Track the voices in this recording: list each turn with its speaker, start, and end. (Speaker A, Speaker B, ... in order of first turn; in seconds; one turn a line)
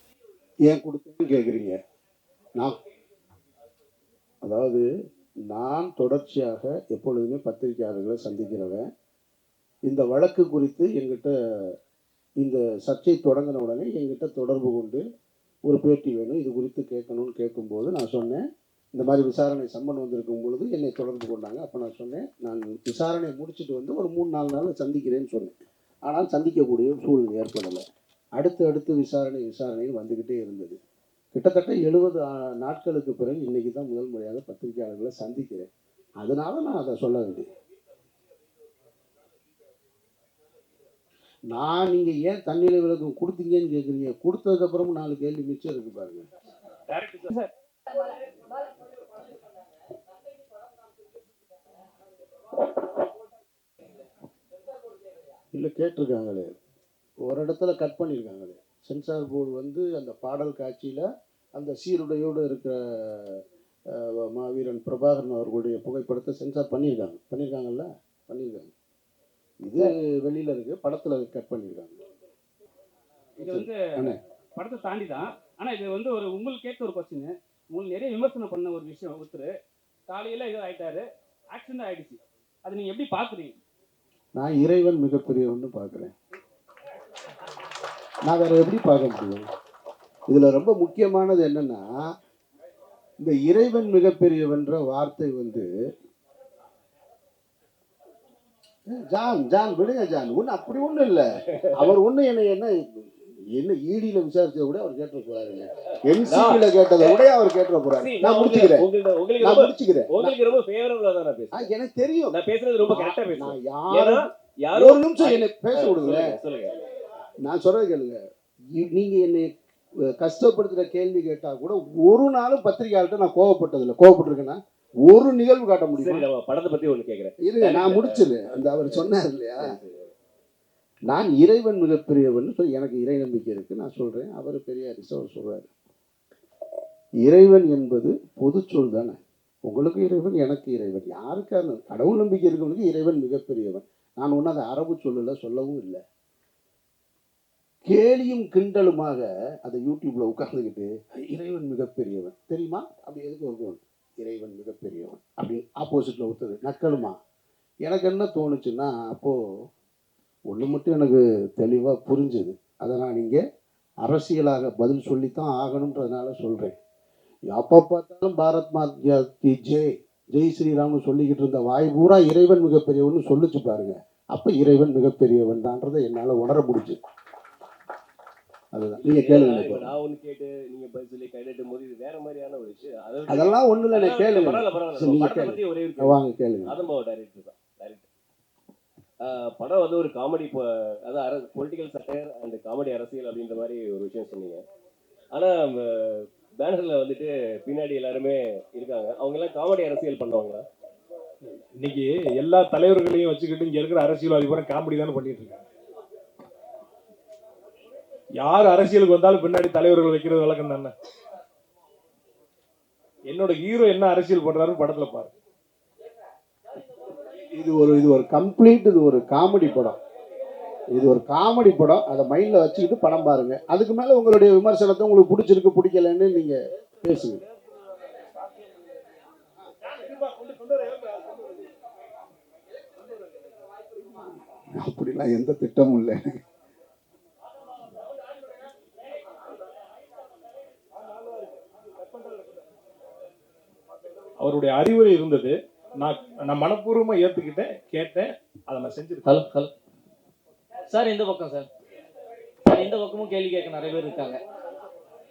Speaker A: 0.7-1.8
Speaker A: 4.4-4.8
Speaker A: 5.5-8.8
Speaker A: 9.8-11.7
Speaker A: 12.4-15.0
Speaker A: 15.7-18.4
Speaker A: 18.9-27.8
Speaker A: 28.4-30.8
Speaker A: 31.3-35.7
Speaker A: 36.2-37.5
Speaker A: 41.5-46.2
Speaker B: 47.2-47.5
Speaker A: 55.5-56.5
Speaker A: 57.2-63.4
Speaker A: 63.9-68.7
Speaker A: 69.6-72.0
Speaker A: 73.4-74.2
Speaker B: 73.4-79.5
Speaker B: 80.1-83.5
Speaker A: 84.3-86.1
Speaker A: 88.2-89.5
Speaker A: 90.3-91.8
Speaker A: 93.2-95.7
Speaker A: 98.9-110.4
Speaker C: 106.3-107.2
Speaker C: 108.0-111.7
Speaker A: 111.5-112.3
Speaker C: 112.3-116.8
Speaker A: 112.9-116.3
Speaker A: 117.4-118.2
Speaker A: 118.7-119.5
Speaker A: 120.1-126.3
Speaker C: 126.0-130.1
Speaker A: 127.4-129.7
Speaker A: 131.1-135.7
Speaker A: 137.2-146.0
Speaker A: 147.8-157.2
Speaker A: 157.8-159.3
Speaker A: 160.5-163.4
Speaker A: 164.0-166.7
Speaker A: 167.5-177.0
Speaker A: 178.7-179.9
Speaker C: 179.0-188.1
Speaker A: 183.3-186.8
Speaker C: 189.2-194.6
Speaker C: 195.3-200.6
Speaker D: 201.8-205.6
Speaker D: 208.4-210.9
Speaker D: 213.2-215.3
Speaker A: 217.5-220.0
Speaker A: 220.9-227.4
Speaker A: 234.8-236.2
Speaker D: 244.4-249.4
Speaker E: 249.3-249.7
Speaker E: 250.9-251.7
Speaker E: 252.7-254.4